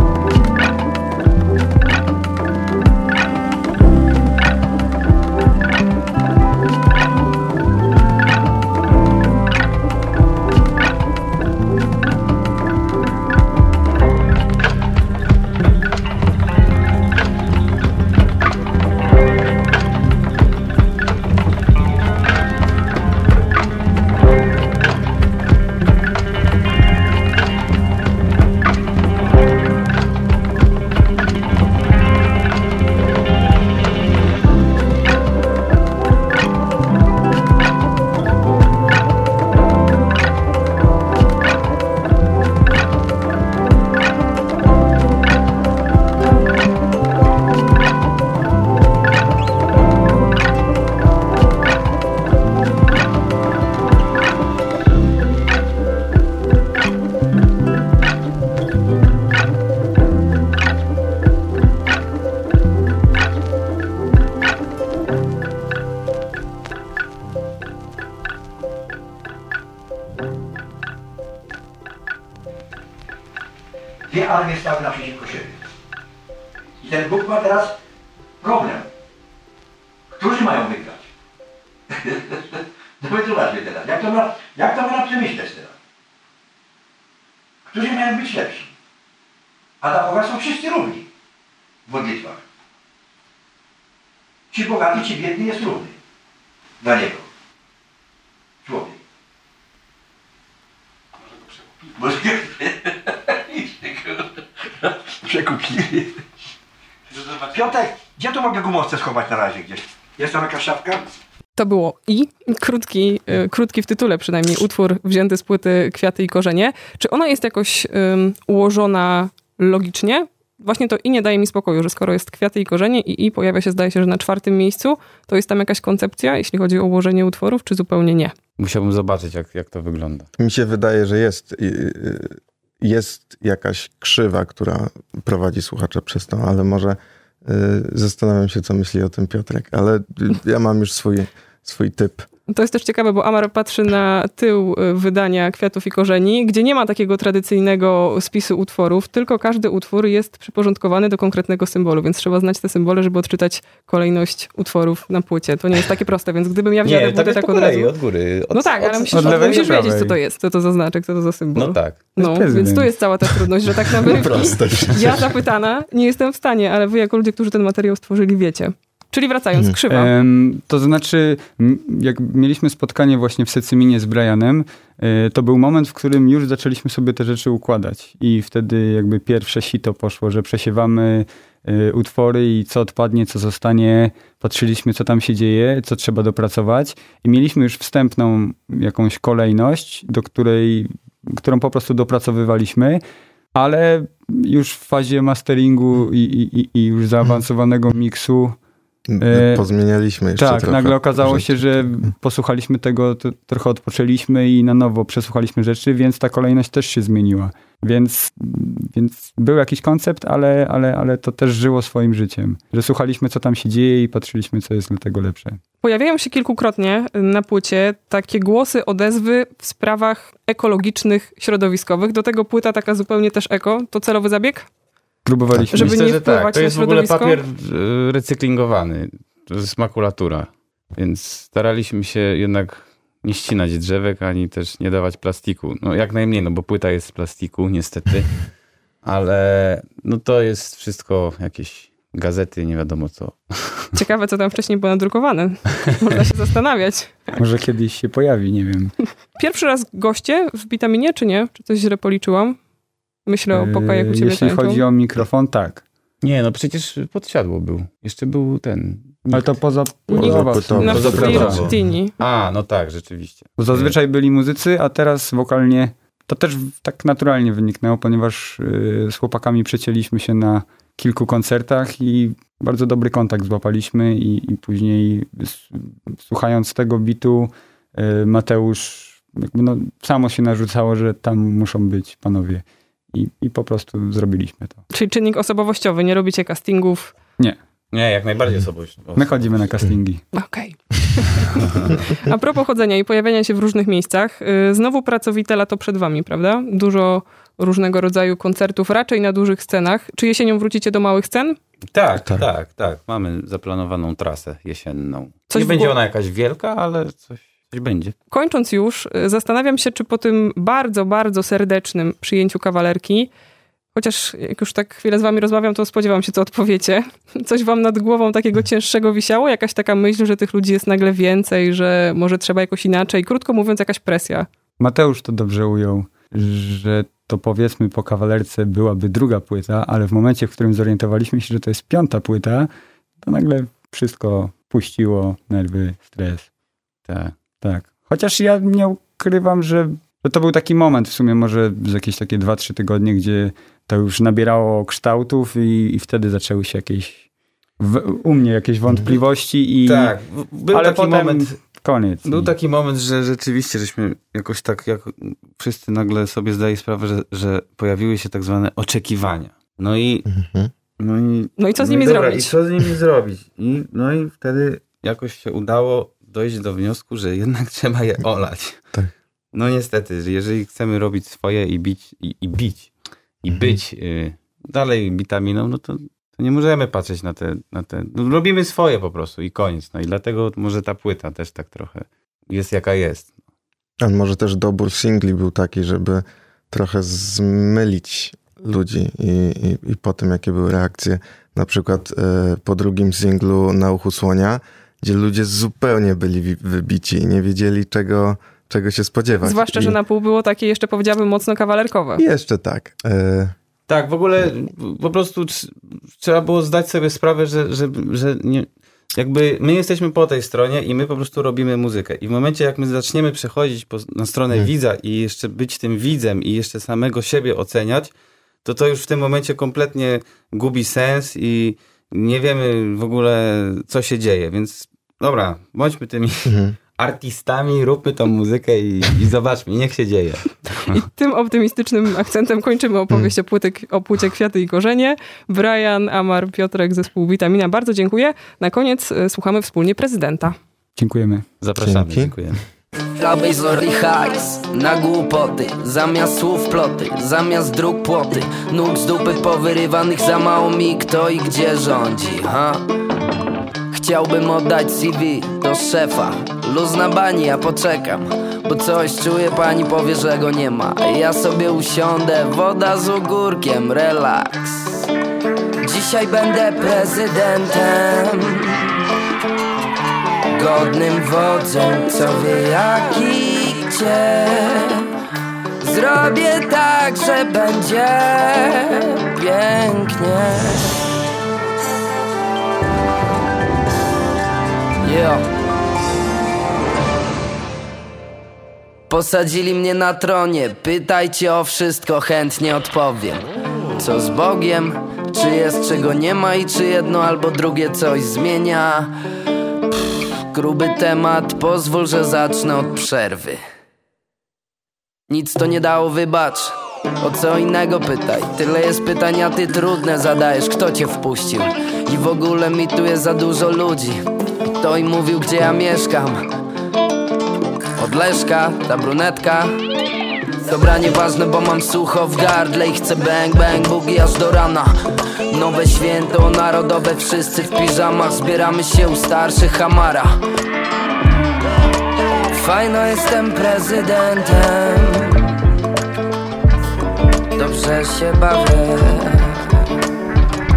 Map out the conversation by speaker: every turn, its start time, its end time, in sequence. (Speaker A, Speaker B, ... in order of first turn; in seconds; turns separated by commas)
Speaker A: 74.1-75.6, Speaker A: 76.8-77.8, Speaker A: 78.4-78.9, Speaker A: 80.2-81.1, Speaker A: 81.9-85.7, Speaker A: 87.7-88.7, Speaker A: 89.8-91.0, Speaker A: 91.9-92.4, Speaker A: 94.5-95.9, Speaker A: 96.8-97.3, Speaker A: 98.6-99.0, Speaker A: 101.8-106.2, Speaker A: 107.1-111.1, Speaker B: 111.6-128.3, Speaker C: 128.6-130.3, Speaker D: 130.4-142.3, Speaker B: 142.5-157.9, Speaker C: 156.8-159.7, Speaker B: 158.5-170.1, Speaker E: 159.1-160.2, Speaker C: 161.6-162.0, Speaker E: 162.2-162.9, Speaker C: 164.1-164.8, Speaker D: 164.1-165.1, Speaker E: 169.9-193.0, Speaker E: 193.6-198.6, Speaker D: 199.1-201.6, Speaker E: 199.2-199.6, Speaker E: 200.4-215.6, Speaker B: 215.8-224.7, Speaker E: 225.3-225.9, Speaker B: 225.7-227.4, Speaker C: 225.7-238.3, Speaker C: 239.0-243.9, Speaker B: 243.9-247.2, Speaker E: 247.4-248.9, Speaker B: 249.4-252.6, Speaker B: 253.3-254.8, Speaker E: 253.5-255.8, Speaker C: 256.2-259.5, Speaker E: 259.3-261.6, Speaker D: 260.1-261.7, Speaker C: 260.2-263.9, Speaker B: 260.8-262.1, Speaker E: 263.6-284.8, Speaker B: 284.9-287.1, Speaker C: 287.9-289.8, Speaker E: 289.2-290.2, Speaker B: 290.3-301.6, Speaker C: 291.5-292.0, Speaker C: 301.9-308.1, Speaker B: 305.5-305.9, Speaker B: 308.3-313.3, Speaker B: 313.9-324.5, Speaker E: 324.8-332.7, Speaker E: 333.2-336.5, Speaker C: 337.1-337.4, Speaker E: 337.6-347.2, Speaker E: 347.8-350.1, Speaker C: 349.9-351.5, Speaker E: 350.7-352.5, Speaker C: 352.3-360.3, Speaker D: 360.3-360.7, Speaker C: 361.0-368.8, Speaker B: 361.6-362.5, Speaker C: 369.5-372.9, Speaker C: 373.4-383.3, Speaker D: 384.0-400.0, Speaker B: 399.4-402.2, Speaker D: 402.2-403.5, Speaker C: 403.9-418.1, Speaker C: 418.6-431.0, Speaker D: 426.4-426.8, Speaker B: 430.9-440.6, Speaker E: 440.9-441.4, Speaker C: 441.6-442.6, Speaker D: 441.8-442.4, Speaker F: 443.2-452.9, Speaker F: 453.9-465.1, Speaker F: 465.8-468.9, Speaker F: 470.5-475.1, Speaker F: 475.8-481.0, Speaker F: 485.0-485.4, Speaker F: 489.1-499.1, Speaker F: 500.5-503.6, Speaker F: 505.3-514.2, Speaker F: 514.8-516.4, Speaker F: 518.0-519.8, Speaker F: 520.6-524.9, Speaker F: 525.5-530.4, Speaker F: 532.5-535.5, Speaker F: 537.5-539.7